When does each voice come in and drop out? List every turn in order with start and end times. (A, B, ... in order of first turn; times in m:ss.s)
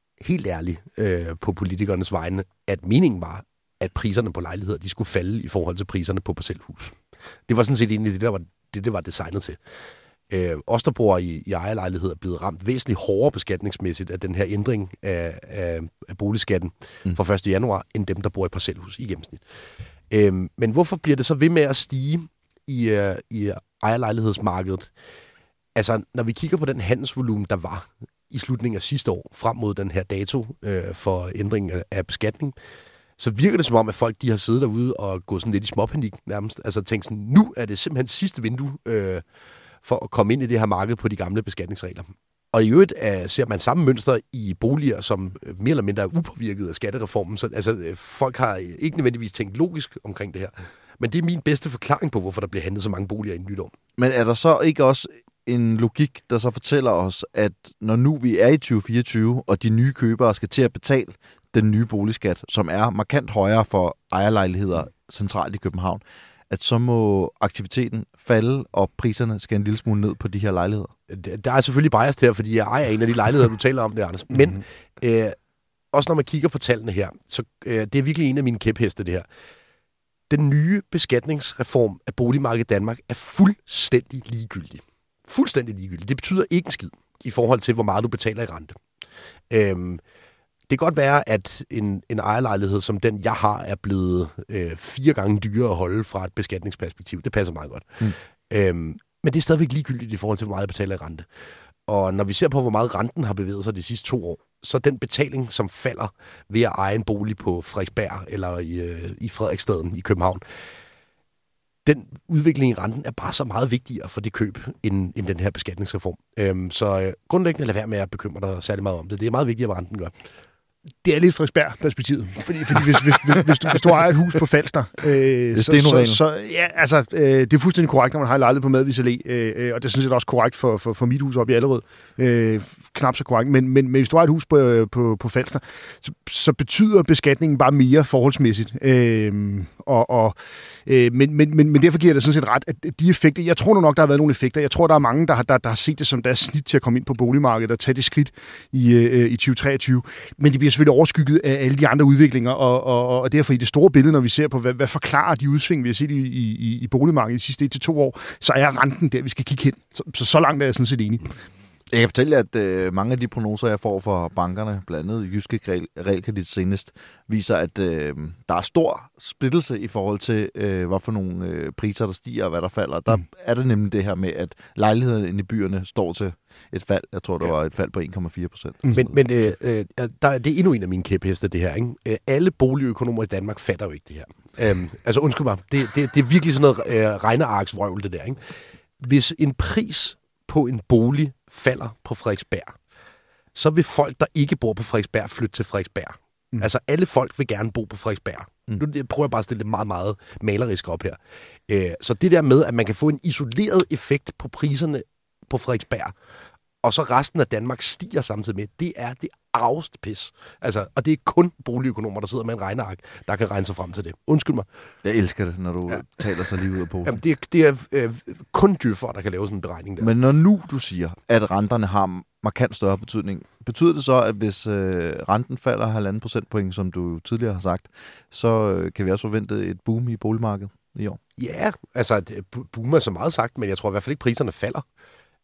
0:00.2-0:09.8 A
0:10.3-0:19.4 A
0:20.1-0:24.9 A
0:25.8-0:32.6 A
0:33.2-0:39.2 A
0:39.8-0:53.7 A
0:54.0-1:10.9 B
1:11.1-1:15.4 A
1:15.9-1:19.3 A
1:20.3-1:28.8 A
1:29.5-1:30.0 A
1:30.7-1:41.3 A
1:41.9-1:50.4 A
1:51.8-2:00.1 A
2:01.0-2:41.3 C
2:05.5-2:06.2 B
2:41.9-2:59.2 B
2:58.9-3:08.4 A
3:09.0-3:12.8 A
3:13.6-3:26.1 A
3:26.8-3:34.7 A
3:35.0-3:37.2 B
3:37.0-3:40.1 A
3:40.0-3:51.2 B
3:51.4-3:54.8 A